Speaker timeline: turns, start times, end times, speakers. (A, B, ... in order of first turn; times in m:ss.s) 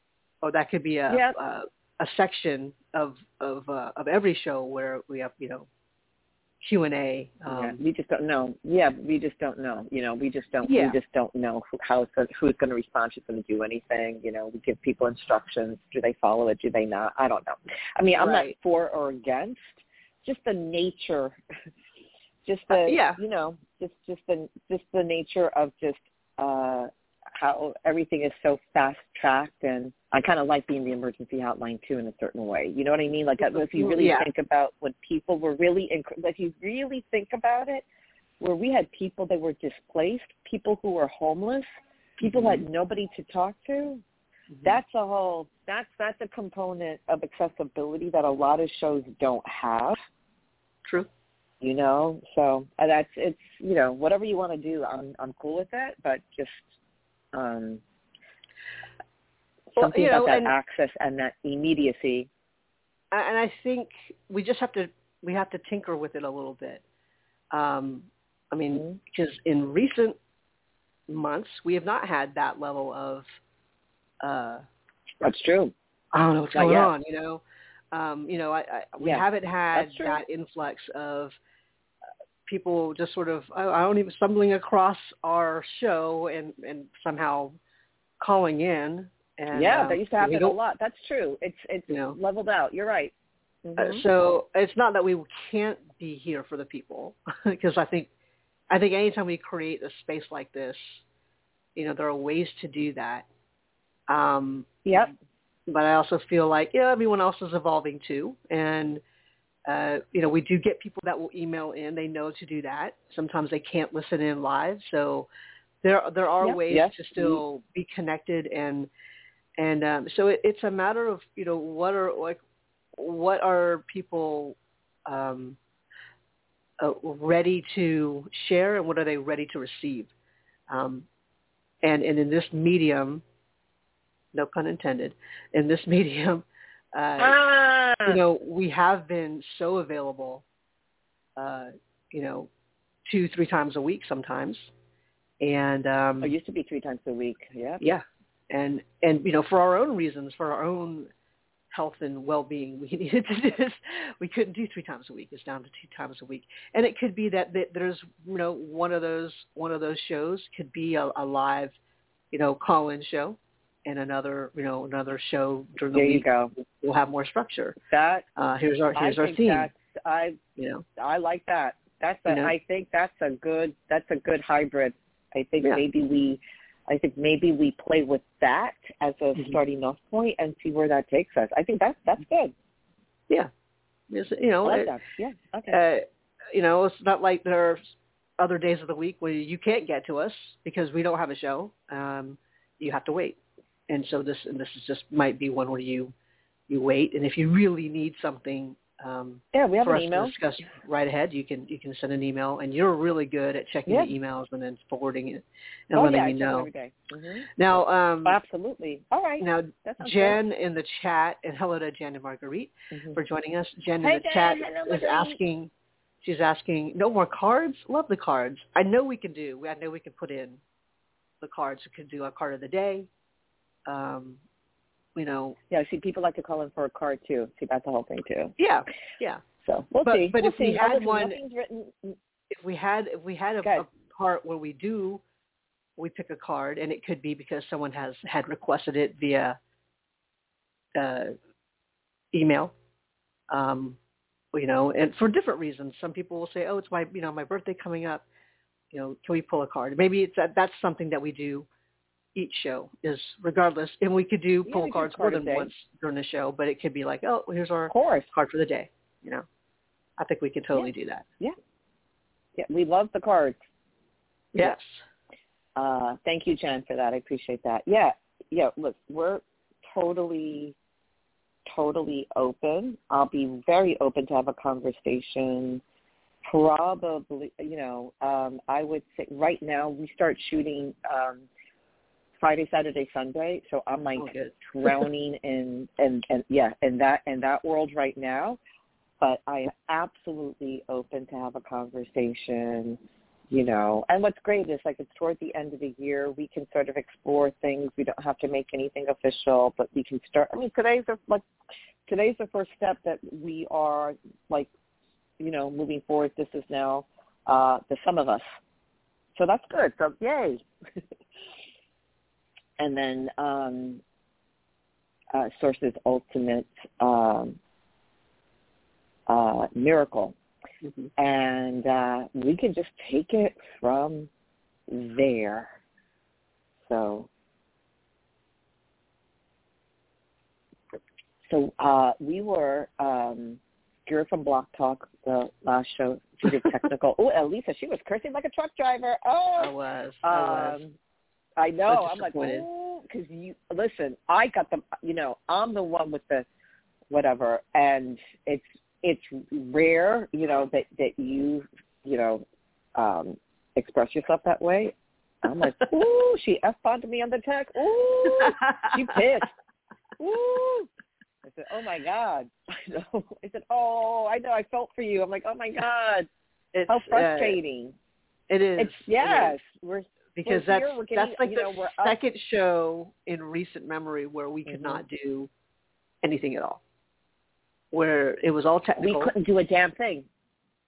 0:00.4-0:05.7 A
0:01.1-0:01.4 B
0:06.6-0:07.8 A
0:07.5-0:21.4 B
0:10.6-0:11.0 A
0:18.2-0:18.5 A
0:22.4-0:37.8 B
0:22.7-0:23.2 A
0:33.7-0:34.3 A
0:38.4-0:41.6 B
0:42.2-0:42.6 A
0:42.2-0:44.0 B
0:44.5-0:44.8 A
0:44.6-0:50.0 B
0:51.6-0:56.7 B
0:57.3-0:57.8 B
0:59.7-1:00.5 A
0:59.8-1:02.3 B
1:03.1-1:06.8 A
1:07.5-1:10.2 A
1:11.1-1:13.2 A
1:14.2-1:14.6 A
1:15.2-1:15.7 B
1:16.1-1:21.4 A
1:16.5-1:16.9 B
1:19.0-1:20.2 B
1:22.4-1:27.6 A
1:28.2-1:30.6 A
1:29.5-1:33.1 B
1:31.9-1:32.2 A
1:33.6-1:34.0 B
1:33.8-1:38.1 A
1:38.7-1:41.0 A
1:41.8-1:43.3 A
1:44.1-1:45.1 A
1:44.8-1:45.1 B
1:45.7-1:49.0 A
1:49.6-1:55.3 A
1:55.8-1:58.9 A
1:56.4-1:57.4 B
1:59.6-2:02.4 A
2:03.0-2:05.6 A
2:06.8-2:10.1 A
2:10.7-2:11.1 A
2:11.8-2:13.2 A
2:14.3-2:17.4 A
2:17.2-2:18.2 B
2:18.0-2:20.4 A
2:21.4-2:22.5 A
2:23.1-2:24.7 A
2:25.4-2:26.3 A
2:26.2-2:27.8 B
2:27.8-2:31.1 A
2:31.7-2:41.7 A
2:42.3-2:47.8 A
2:45.9-2:46.5 B
2:47.9-2:48.2 B
2:48.4-2:49.7 A
2:48.9-2:50.4 B
2:50.6-2:50.8 A
2:51.0-3:02.5 B
2:52.3-2:52.5 A
3:04.1-3:04.9 A
3:04.6-3:05.8 B
3:05.7-3:13.4 A
3:13.9-3:16.1 A
3:16.7-3:26.7 A
3:19.5-3:20.3 B
3:25.9-3:27.5 B
3:27.6-3:28.4 A
3:28.2-3:30.4 B
3:29.4-3:35.7 A
3:32.9-3:33.2 B
3:34.0-3:35.4 B
3:36.2-3:40.6 A
3:41.4-3:43.1 A
3:43.9-3:44.4 A
3:45.2-3:45.6 A
3:45.7-3:48.5 B
3:48.6-3:49.4 A
3:49.6-3:52.2 B
3:50.0-3:51.4 A
3:52.5-3:55.2 A
3:56.0-3:59.6 A
4:01.0-4:01.3 A
4:02.3-4:02.7 A
4:03.5-4:04.0 A
4:04.5-4:08.2 A
4:08.9-4:11.7 A
4:12.3-4:19.4 A
4:14.6-4:15.7 B
4:17.9-4:18.3 B
4:20.2-4:21.2 A
4:20.7-4:21.6 B
4:22.6-4:23.6 B
4:24.5-4:25.0 A
4:25.8-4:30.8 B
4:31.6-4:35.8 B
4:36.4-4:41.4 B
4:42.4-4:48.6 B
4:44.2-4:45.0 A
4:49.2-5:01.4 B
5:02.1-5:04.7 B
5:05.4-5:08.4 B
5:09.4-5:10.6 B
5:12.8-5:14.0 B
5:15.3-5:17.6 B
5:19.3-5:20.3 B
5:21.2-5:24.3 B
5:24.9-5:25.8 B
5:26.8-5:27.3 B
5:31.5-5:40.9 B
5:39.6-5:40.8 A
5:41.6-5:46.5 B
5:41.9-5:42.6 A
5:47.1-5:52.4 B
5:53.0-5:59.5 B
6:00.2-6:00.9 B
6:01.4-6:06.3 B
6:06.7-6:07.6 A
6:06.9-6:08.0 B
6:08.5-6:09.6 A
6:08.8-6:12.2 B
6:10.4-6:15.5 A
6:14.6-6:15.0 B
6:16.2-6:16.8 A
6:17.9-6:19.3 A
6:19.0-6:20.3 B